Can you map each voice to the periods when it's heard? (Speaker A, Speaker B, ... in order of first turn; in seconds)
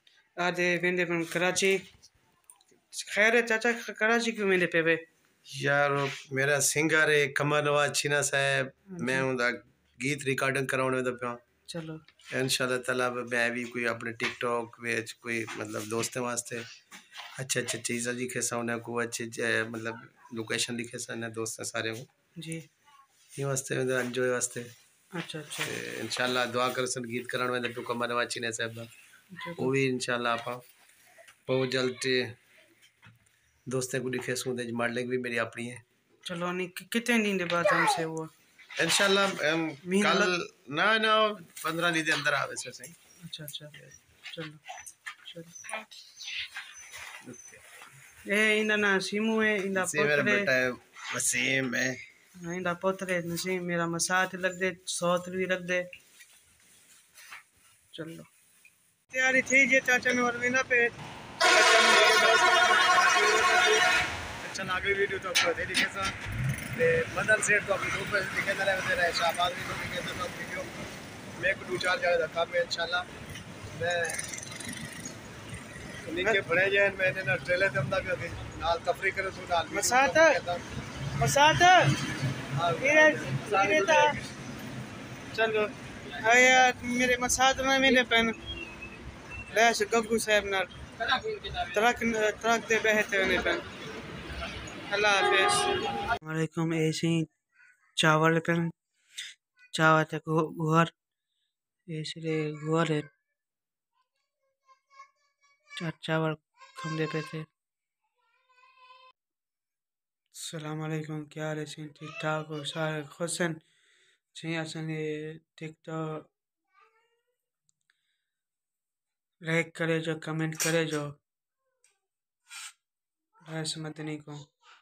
Speaker A: 0.4-1.8, 2.9-5.0, 8.9-9.3, 11.7-12.0, 22.4-22.7, 25.1-25.8, 29.3-29.7, 36.2-38.3, 39.8-40.3, 43.2-43.8, 44.3-44.6, 45.2-45.6, 48.3-50.5, 52.4-55.9, 57.9-58.3, 59.1-60.9, 61.5-62.4, 79.7-80.4, 81.2-82.0, 82.8-84.2, 85.3-88.3, 89.5-90.7, 91.5-93.7, 94.9-97.3, 98.0-98.7, 99.7-100.9, 101.9-103.1, 105.8-107.5, 110.3-113.6, 114.3-116.3, 119.4-121.2, 123.5-124.5
Speaker B: 5.5-11.4, 12.3-16.7, 17.4-22.1, 23.4-24.7, 25.6-28.9, 29.6-30.6, 31.5-32.4, 33.7-35.8, 38.8-43.0, 47.2-47.6, 49.7-52.0, 61.9-63.9, 64.4-66.1, 66.7-70.7, 71.4-73.1, 73.8-74.2, 76.1-80.6, 82.5-84.3